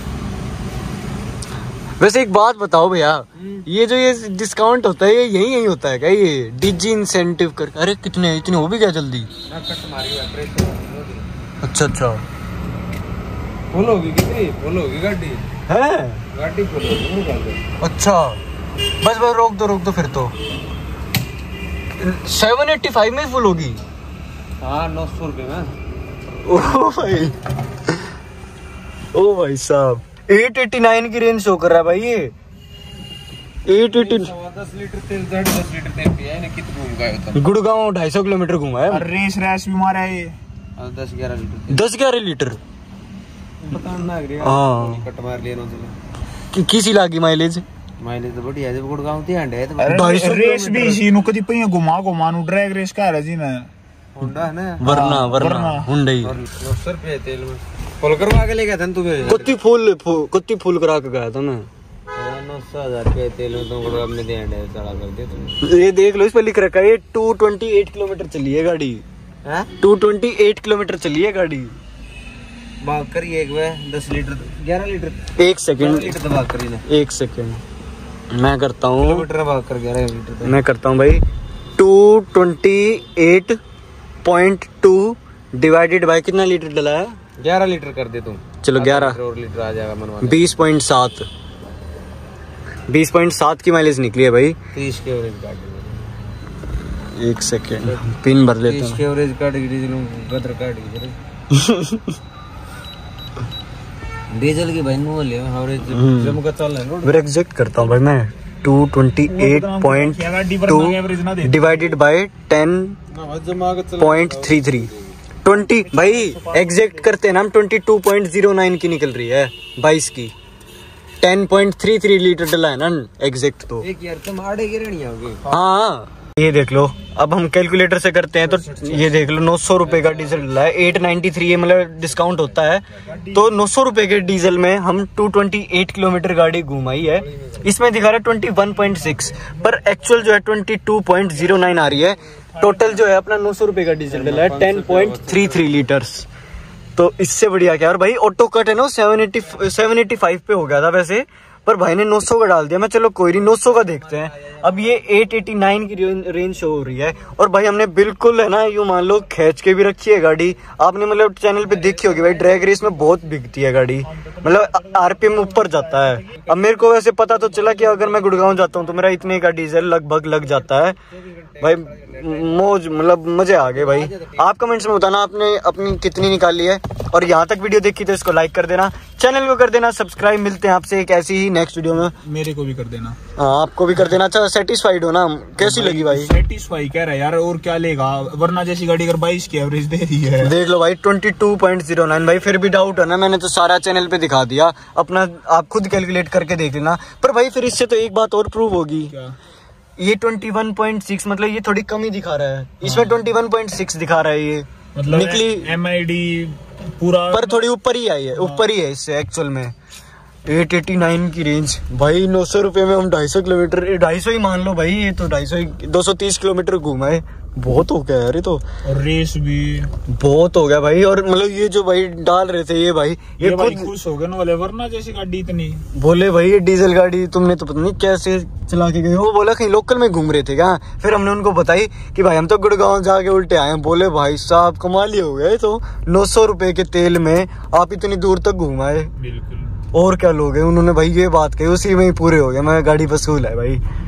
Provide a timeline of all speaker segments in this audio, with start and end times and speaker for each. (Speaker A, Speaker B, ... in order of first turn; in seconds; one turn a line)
Speaker A: 2.0-9.3
Speaker B: 9.5-11.3
Speaker A: 11.6-12.2
Speaker B: 13.7-15.5
Speaker A: 15.7-16.2
Speaker B: 16.3-17.6
Speaker A: 17.8-18.4
Speaker A: 19.0-20.3
Speaker A: 22.0-23.8
Speaker B: 24.6-25.7
Speaker A: 26.4-27.4
Speaker A: 29.1-32.3
Speaker A: 33.7-34.3
Speaker B: 33.9-37.4
Speaker A: 37.4-39.1
Speaker C: 38.9-40.4
Speaker B: 40.8-41.8
Speaker A: 41.7-42.6
Speaker B: 43.6-46.0
Speaker A: 44.4-45.1
Speaker A: 46.5-47.7
Speaker B: 48.0-51.0
Speaker C: 49.8-53.7
Speaker A: 49.9-50.7
Speaker B: 54.2-54.8
Speaker A: 54.8-56.4
Speaker C: 54.8-55.9
Speaker B: 56.2-59.5
Speaker A: 59.2-61.7
Speaker B: 62.1-65.6
Speaker A: 65.6-69.0
Speaker B: 69.5-69.7
Speaker A: 69.8-71.8
Speaker B: 72.8-75.2
Speaker A: 75.4-76.1
Speaker B: 75.8-76.8
Speaker A: 76.8-77.6
Speaker A: 78.3-79.3
Speaker B: 79.0-80.5
Speaker A: 80.4-81.2
Speaker A: 81.8-83.6
Speaker A: 84.2-87.2
Speaker B: 87.4-90.4
Speaker A: 88.6-89.2
Speaker A: 90.2-91.3
Speaker A: 92.9-94.6
Speaker B: 94.7-96.0
Speaker A: 97.2-99.0
Speaker B: 98.6-101.2
Speaker A: 101.5-102.1
Speaker B: 104.3-107.2
Speaker A: 105.9-106.3
Speaker A: 107.0-113.0
Speaker C: 109.2-112.0
Speaker B: 113.1-114.8
Speaker A: 114.0-114.9
Speaker A: 115.4-120.3
Speaker C: 115.8-117.0
Speaker A: 121.2-123.9
Speaker B: 123.8-125.4
Speaker A: 125.5-146.3
Speaker B: 128.6-129.1
Speaker B: 129.9-130.5
Speaker C: 133.1-133.5
Speaker C: 142.6-143.0
Speaker B: 144.1-145.7
Speaker A: 147.0-171.0
Speaker C: 164.2-166.2
Speaker B: 171.4-172.4
Speaker A: 171.6-182.1
Speaker B: 173.8-174.4
Speaker C: 182.1-183.2
Speaker A: 183.4-186.3
Speaker C: 185.6-190.5
Speaker A: 190.4-199.1
Speaker C: 199.1-199.3
Speaker A: 200.0-205.7
Speaker C: 202.8-203.2
Speaker C: 204.9-207.7
Speaker A: 207.3-209.7
Speaker C: 208.3-208.6
Speaker A: 210.5-218.7
Speaker C: 218.8-219.9
Speaker A: 220.1-223.9
Speaker C: 223.4-225.8
Speaker A: 226.0-239.1
Speaker C: 239.2-239.8
Speaker A: 239.9-243.8